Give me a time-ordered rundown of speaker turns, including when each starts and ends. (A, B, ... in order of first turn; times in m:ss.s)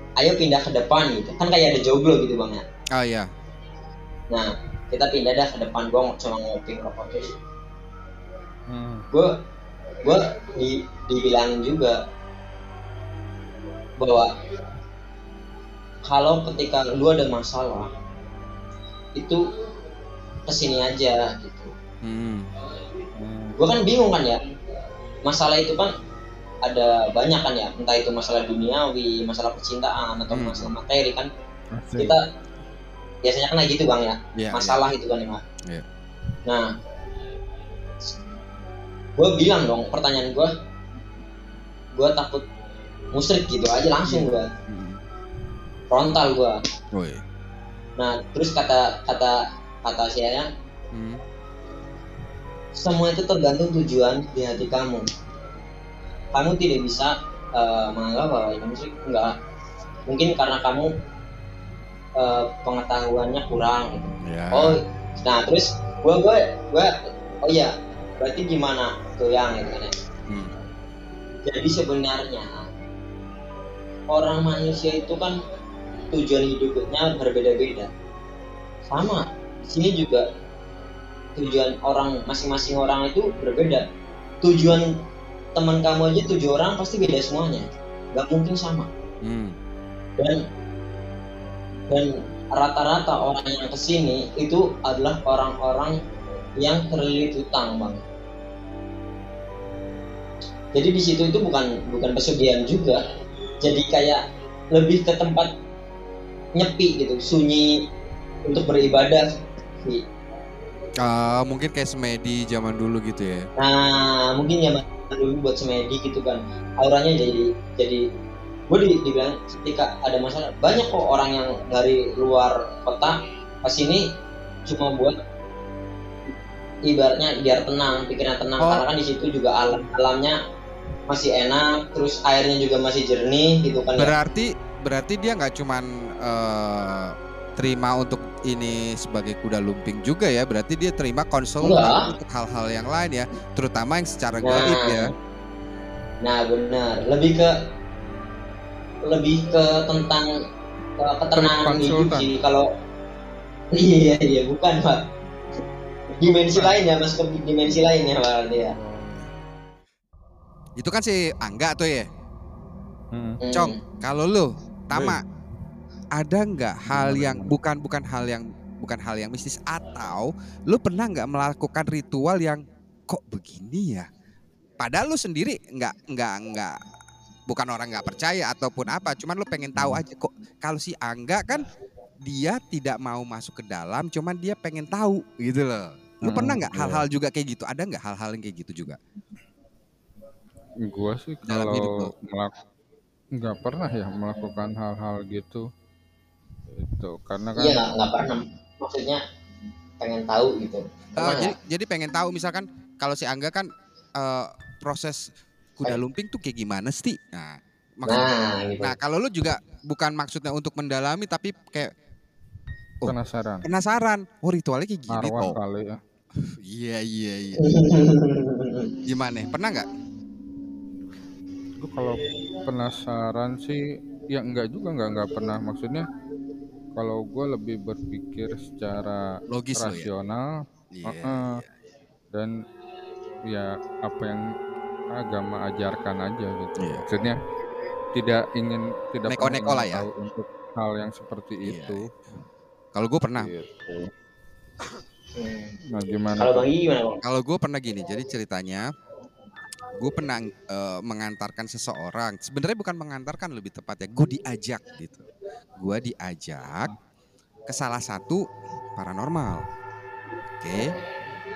0:00.2-0:02.6 A
0:02.9-0:03.3 B
0:04.3-0:07.3 A
0:08.7-0:09.0 C
0:10.0-0:12.0 A
0:14.0-0:14.3 A
0:16.1-0:17.9 A
0:19.2-0:19.4 A
0:20.5-0:21.7 A
0:22.0-0:22.5 B
0:23.2-0:23.6 C
0:23.6-0:24.4 A
0:25.2-0:25.9 A
0:26.6-0:31.3 A
0:30.3-0:30.7 B
0:31.7-0:32.2 C
0:32.0-0:32.2 A
0:33.2-0:35.4 A
0:34.4-0:34.8 B
0:39.2-0:40.5 A
0:41.9-0:42.4 A
0:43.1-0:44.5 A
0:44.2-0:45.0 B
0:45.9-0:46.6 A
0:46.9-0:47.2 B
0:48.0-0:50.5 A
0:50.9-0:51.2 B
0:52.8-0:55.1 A
0:56.3-0:59.3 A
1:00.1-1:00.9 A
1:02.2-1:09.9 A
1:04.2-1:04.8 B
1:10.3-1:10.5 B
1:11.4-1:12.6 A
1:14.1-1:15.4 A
1:16.1-1:17.9 A
1:18.9-1:20.2 A
1:21.4-1:23.8 A
1:24.4-1:25.0 A
1:25.5-1:28.9 A
1:29.2-1:29.6 B
1:31.9-1:36.0 A
1:36.6-1:38.0 A
1:40.7-1:43.0 A
1:43.6-1:45.5 A
1:46.6-1:47.8 A
1:48.4-1:49.2 A
1:51.0-1:53.5 B
1:53.6-1:58.0 A
1:58.7-2:04.1 A
2:04.7-2:05.2 A
2:06.8-2:10.4 A
2:08.6-2:08.8 B
2:11.1-2:14.1 A
2:14.0-2:25.1 B
2:21.6-2:22.1 A
2:24.4-2:25.1 A
2:26.2-2:27.5 A
2:29.0-2:30.3 A
2:31.0-2:32.7 A
2:31.4-2:32.3 C
2:33.7-2:35.0 A
2:36.1-2:38.8 A
2:36.4-2:36.8 C
2:38.8-2:39.2 C
2:40.8-2:42.0 B
2:43.1-2:43.4 C
2:43.4-2:43.8 A
2:43.5-2:45.2 B
2:44.9-2:45.2 C
2:46.2-2:54.1 B
2:46.9-2:47.5 C
2:54.8-2:56.8 B
2:57.5-3:01.6 B
2:59.8-3:00.0 C
3:02.2-3:09.0 B
3:06.2-3:07.0 C
3:10.8-3:12.5 C
3:11.4-3:12.1 B
3:13.4-3:15.7 C
3:16.7-3:17.8 C
3:17.6-3:19.2 A
3:20.0-3:21.5 A
3:21.2-3:31.9 B
3:28.0-3:28.9 A
3:33.0-3:35.6 B
3:33.0-3:33.6 C
3:35.1-3:36.0 C
3:36.4-3:37.7 B
3:37.6-3:38.9 A
3:39.1-3:39.8 B
3:41.8-3:46.1 C
3:47.0-3:50.5 C
3:49.5-3:50.1 B
3:50.9-3:51.7 B
3:51.1-3:51.6 C
3:53.5-3:54.4 C
3:55.1-3:57.4 C
3:56.8-3:57.1 B
3:58.1-4:02.1 C
3:59.3-4:00.1 B
4:01.6-4:02.0 B
4:02.9-4:03.5 B
4:03.4-4:04.1 C
4:05.4-4:05.8 A
4:05.9-4:06.7 C
4:06.4-4:07.2 A
4:07.2-4:08.8 B
4:10.0-4:16.9 B
4:17.6-4:18.4 B
4:19.0-4:19.7 B
4:20.6-4:20.9 B